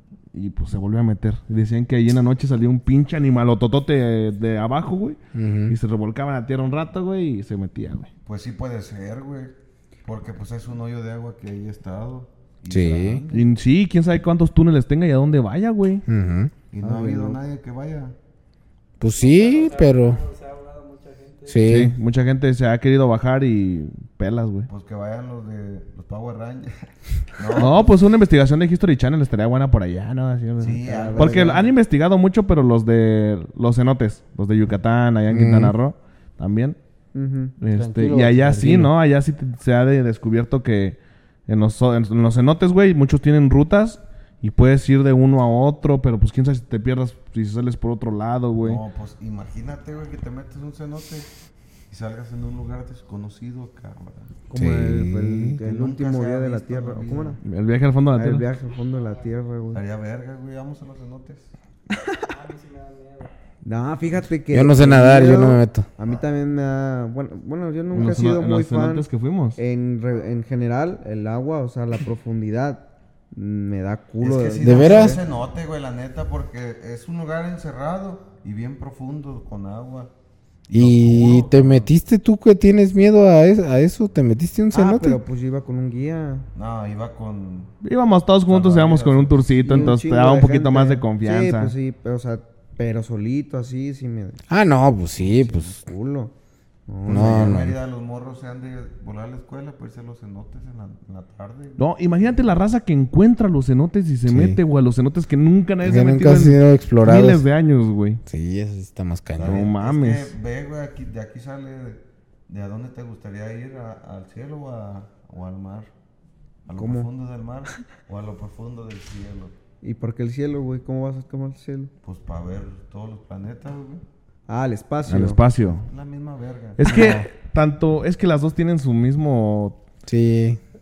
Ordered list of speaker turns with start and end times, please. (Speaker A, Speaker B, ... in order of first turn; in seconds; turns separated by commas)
Speaker A: 0.3-8.1, Speaker B: 5.3-5.7, Speaker C: 8.2-13.5, Speaker B: 12.7-13.2, Speaker A: 13.3-16.0, Speaker B: 16.1-16.5, Speaker C: 16.7-18.1, Speaker D: 16.8-17.4, Speaker B: 19.0-20.2, Speaker E: 19.1-21.7, Speaker B: 21.5-21.9, Speaker A: 21.6-24.7, Speaker C: 24.7-26.9, Speaker C: 27.4-27.9, Speaker A: 27.6-36.8, Speaker C: 30.6-31.6, Speaker D: 30.9-31.6, Speaker B: 35.3-35.7, Speaker D: 37.1-37.5, Speaker A: 37.6-48.8, Speaker B: 37.7-38.9, Speaker C: 48.6-51.3, Speaker C: 51.9-54.3, Speaker D: 54.5-57.4, Speaker B: 54.5-55.6, Speaker C: 55.6-57.4, Speaker A: 57.4-58.4, Speaker D: 58.1-59.8, Speaker E: 58.6-59.4, Speaker C: 59.7-61.5, Speaker E: 62.2-63.3, Speaker D: 63.6-69.0, Speaker B: 64.5-65.9, Speaker A: 67.9-69.6, Speaker D: 69.6-75.2, Speaker C: 74.2-80.1, Speaker B: 74.6-75.2, Speaker C: 80.7-81.9, Speaker B: 80.7-85.2, Speaker D: 84.7-86.5, Speaker C: 86.5-87.7, Speaker A: 87.8-91.7, Speaker C: 88.5-89.5, Speaker D: 89.6-94.4, Speaker B: 94.5-95.8, Speaker D: 95.2-96.3, Speaker D: 96.9-97.7, Speaker B: 97.1-97.8, Speaker C: 97.1-101.8, Speaker A: 101.8-108.2, Speaker B: 104.3-104.6, Speaker B: 105.8-107.4, Speaker B: 108.2-109.7, Speaker C: 109.3-115.9, Speaker A: 109.4-110.3, Speaker C: 116.7-119.5, Speaker D: 116.8-117.1, Speaker D: 119.8-121.9, Speaker C: 122.0-124.0, Speaker D: 124.5-125.4, Speaker A: 125.1-125.8, Speaker C: 125.6-126.8, Speaker A: 126.8-129.8, Speaker D: 126.8-127.3, Speaker B: 130.1-130.6